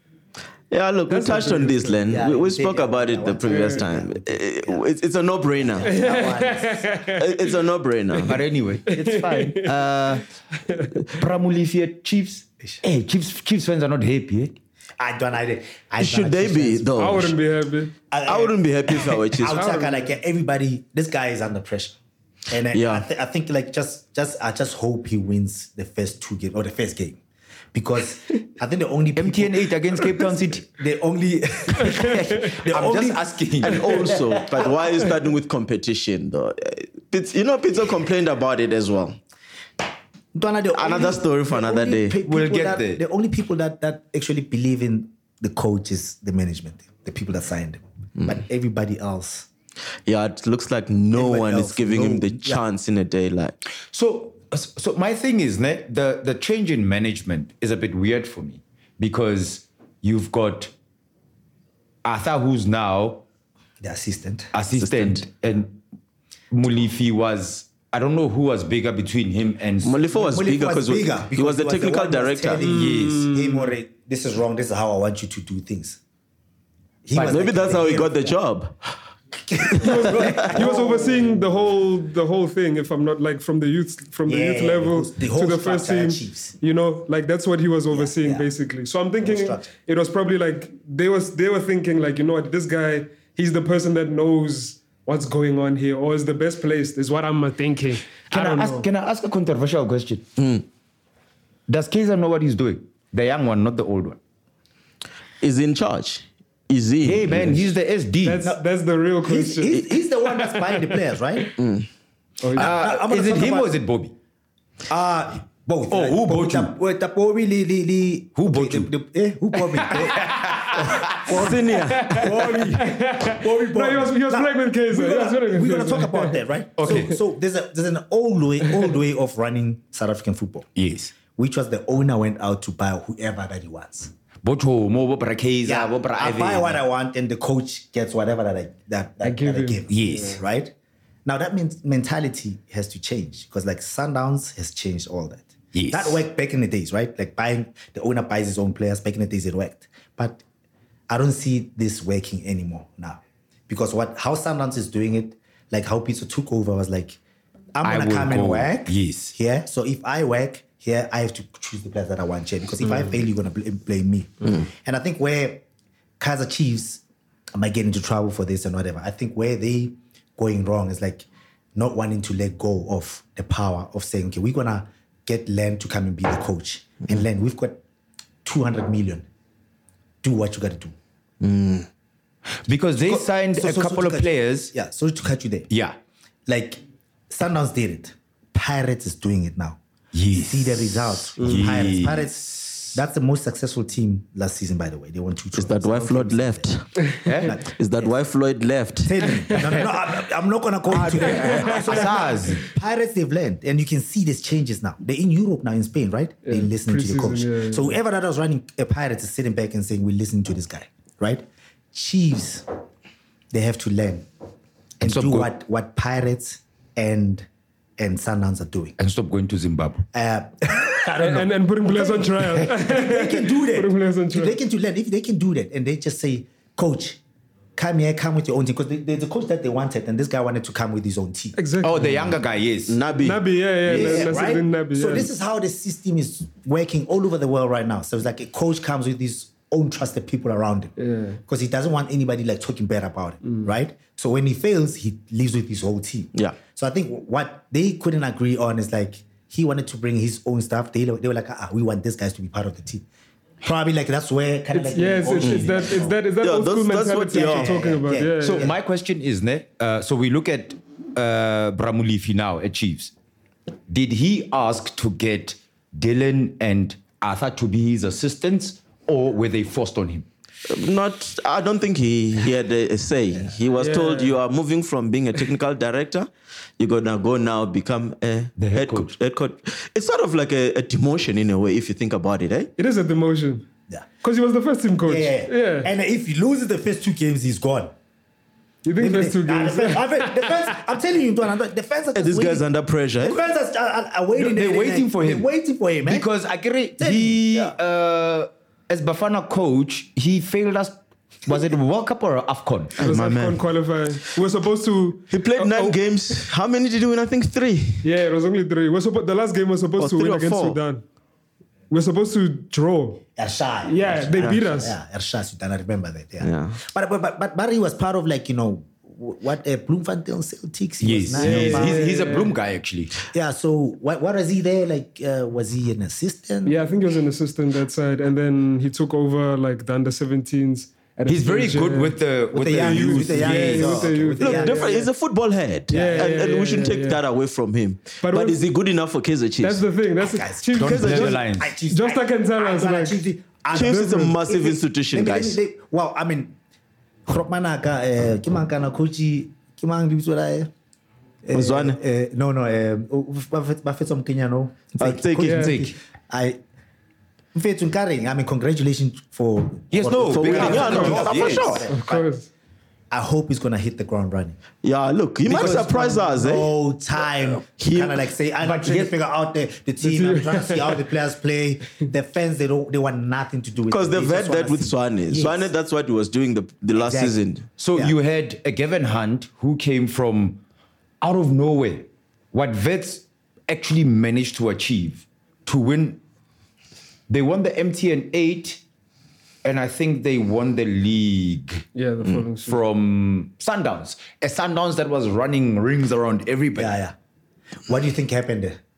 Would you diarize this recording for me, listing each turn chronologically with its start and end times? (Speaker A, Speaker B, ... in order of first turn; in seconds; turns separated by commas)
Speaker A: 0.7-5.9, Speaker B: 1.1-2.0, Speaker C: 2.1-4.9, Speaker B: 3.5-3.8, Speaker C: 5.6-7.1, Speaker B: 5.8-7.4, Speaker A: 7.2-8.4, Speaker D: 8.2-10.3, Speaker B: 8.9-9.8, Speaker D: 11.1-14.6, Speaker C: 15.0-17.3, Speaker A: 16.0-17.4, Speaker B: 17.0-17.9, Speaker C: 18.1-22.0, Speaker A: 18.2-19.6, Speaker B: 19.5-20.1, Speaker C: 22.5-27.2, Speaker A: 22.7-23.1, Speaker C: 27.7-35.0, Speaker D: 29.2-30.7, Speaker D: 32.6-34.1, Speaker A: 33.6-39.2, Speaker C: 40.3-49.5, Speaker A: 40.7-42.2, Speaker D: 42.2-43.0, Speaker A: 50.1-53.6, Speaker C: 51.1-52.6, Speaker D: 53.9-60.7, Speaker D: 62.0-63.2, Speaker C: 63.8-64.5, Speaker D: 64.5-65.8, Speaker A: 64.8-65.2, Speaker D: 66.5-70.0, Speaker A: 69.8-72.6, Speaker C: 70.1-76.0, Speaker B: 72.6-73.7, Speaker D: 72.6-73.3, Speaker C: 77.1-78.4, Speaker D: 77.1-77.7, Speaker A: 77.2-78.8, Speaker C: 79.5-81.4, Speaker A: 79.7-80.6, Speaker B: 79.8-98.9, Speaker C: 84.3-86.6, Speaker C: 87.9-88.5, Speaker C: 89.2-89.7, Speaker D: 98.3-100.3, Speaker A: 100.4-100.6, Speaker D: 101.7-104.2, Speaker A: 105.4-107.7, Speaker D: 107.0-108.5, Speaker B: 108.2-109.8, Speaker C: 109.2-111.5, Speaker A: 111.6-111.9, Speaker B: 112.4-112.7, Speaker C: 112.5-113.8, Speaker D: 112.5-114.1, Speaker C: 114.9-130.7, Speaker D: 115.9-116.7, Speaker D: 118.4-118.9, Speaker D: 119.8-121.4, Speaker A: 121.3-122.2, Speaker B: 121.9-126.4, Speaker D: 122.2-122.8, Speaker D: 126.8-127.2, Speaker D: 130.8-131.1, Speaker C: 131.3-134.1, Speaker D: 134.4-136.8, Speaker C: 135.7-140.7, Speaker B: 139.2-140.2, Speaker D: 139.9-140.4, Speaker C: 141.2-150.4, Speaker D: 145.7-146.2, Speaker C: 151.1-157.2, Speaker C: 157.8-165.6, Speaker D: 157.8-159.3, Speaker C: 166.2-167.0, Speaker C: 167.5-177.8, Speaker C: 178.4-179.3, Speaker C: 180.2-180.9, Speaker A: 181.4-181.9, Speaker D: 182.7-184.7, Speaker C: 183.0-185.7, Speaker D: 185.7-186.0, Speaker C: 186.5-189.8, Speaker D: 190.1-193.0, Speaker C: 190.3-196.7, Speaker A: 195.6-196.9, Speaker D: 197.2-197.6, Speaker C: 197.4-198.1, Speaker A: 197.6-199.4, Speaker C: 199.0-212.7, Speaker D: 200.9-202.6, Speaker B: 201.3-201.7, Speaker B: 206.5-208.0, Speaker C: 213.5-214.3, Speaker C: 215.0-217.5, Speaker D: 215.0-215.5, Speaker C: 218.0-219.0, Speaker D: 219.0-220.1, Speaker C: 220.1-227.2, Speaker B: 221.2-224.6, Speaker C: 227.8-231.6, Speaker B: 231.6-232.3, Speaker D: 231.8-233.0, Speaker A: 232.9-234.4, Speaker B: 233.2-235.3, Speaker C: 233.9-253.1, Speaker B: 241.0-241.4, Speaker C: 253.6-256.2, Speaker B: 254.7-258.7, Speaker A: 255.4-255.7, Speaker A: 256.4-257.8, Speaker C: 257.4-258.8, Speaker D: 258.4-263.1, Speaker D: 263.9-270.3, Speaker A: 270.7-282.7, Speaker B: 273.8-274.4, Speaker D: 278.6-279.1, Speaker B: 282.8-283.6, Speaker B: 284.2-285.9, Speaker C: 285.1-287.9, Speaker B: 288.8-290.8, Speaker C: 289.0-292.7, Speaker A: 292.1-293.4, Speaker C: 293.2-296.3, Speaker D: 294.4-295.5, Speaker D: 296.1-303.0, Speaker C: 297.0-297.8, Speaker A: 303.0-303.6, Speaker B: 303.0-306.0, Speaker A: 305.3-308.1, Speaker B: 308.0-311.0, Speaker A: 310.0-310.8, Speaker B: 311.9-313.2, Speaker C: 313.4-322.1, Speaker B: 313.8-315.0, Speaker A: 316.4-316.8, Speaker D: 321.0-323.1, Speaker B: 321.3-322.5, Speaker C: 323.3-326.8, Speaker B: 326.6-332.2, Speaker D: 331.3-334.2, Speaker C: 332.5-334.9, Speaker B: 332.7-335.1, Speaker A: 334.4-339.8, Speaker B: 335.9-337.2, Speaker C: 335.9-336.4, Speaker B: 338.2-338.6, Speaker B: 339.6-343.2, Speaker C: 340.2-346.6, Speaker D: 340.8-341.8, Speaker A: 340.8-341.4, Speaker A: 343.7-345.6, Speaker B: 343.8-344.3, Speaker C: 347.3-350.7, Speaker C: 351.4-356.6, Speaker A: 351.5-352.0, Speaker A: 355.0-355.7, Speaker B: 355.4-355.8, Speaker D: 355.5-355.9, Speaker C: 357.6-362.3, Speaker D: 359.9-361.8, Speaker A: 360.3-361.9, Speaker B: 360.6-362.5, Speaker C: 363.1-364.6, Speaker A: 364.8-366.7, Speaker C: 365.5-375.7, Speaker D: 365.5-365.9, Speaker A: 367.5-368.2, Speaker D: 368.6-369.1, Speaker B: 370.0-371.0, Speaker A: 373.9-377.7, Speaker C: 377.0-377.4, Speaker D: 377.8-380.6, Speaker D: 381.2-386.2, Speaker D: 387.3-388.8, Speaker D: 389.6-391.9, Speaker B: 391.9-392.8, Speaker D: 392.6-396.9, Speaker C: 396.8-397.1, Speaker C: 397.9-398.8